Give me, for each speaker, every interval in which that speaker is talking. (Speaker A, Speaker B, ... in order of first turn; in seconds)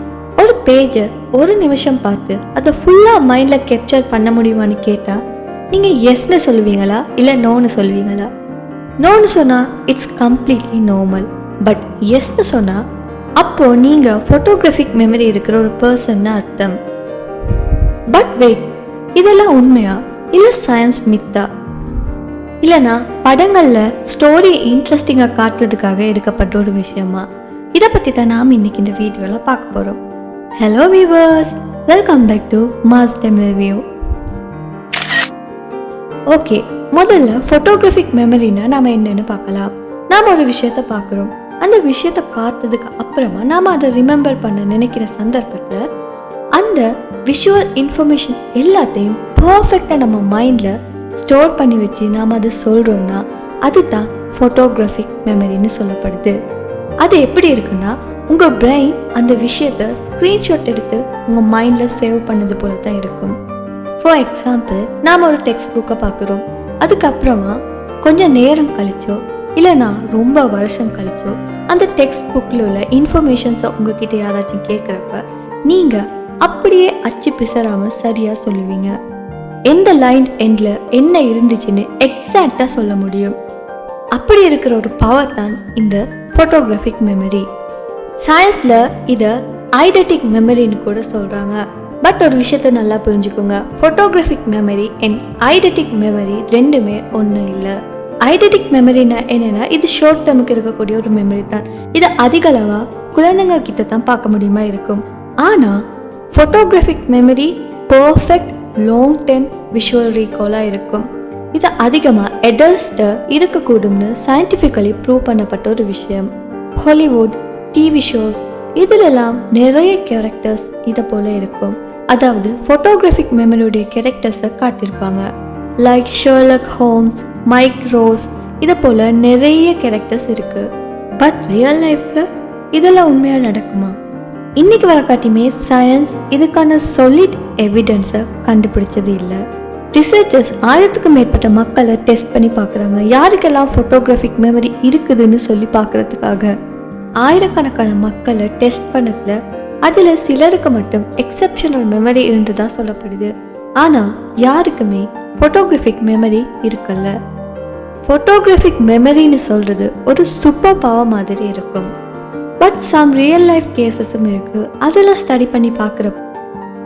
Speaker A: 0.4-5.2, 5.7-8.3, 9.0-12.8, 13.4-16.7, 18.1-21.4, 22.6-27.2, 27.8-30.0, 30.6-33.8, 36.3-45.8, 46.5-56.4, 57.0-63.3, 64.0-79.0, 79.7-83.3, 84.2-87.5, 88.2-105.8, 106.3-116.3, 116.8-125.3, 125.8-130.7, 131.2-133.9, 134.6-139.4, 139.9-146.5, 147.2-153.3, 153.8-157.1, 158.1-161.9, 162.6-166.2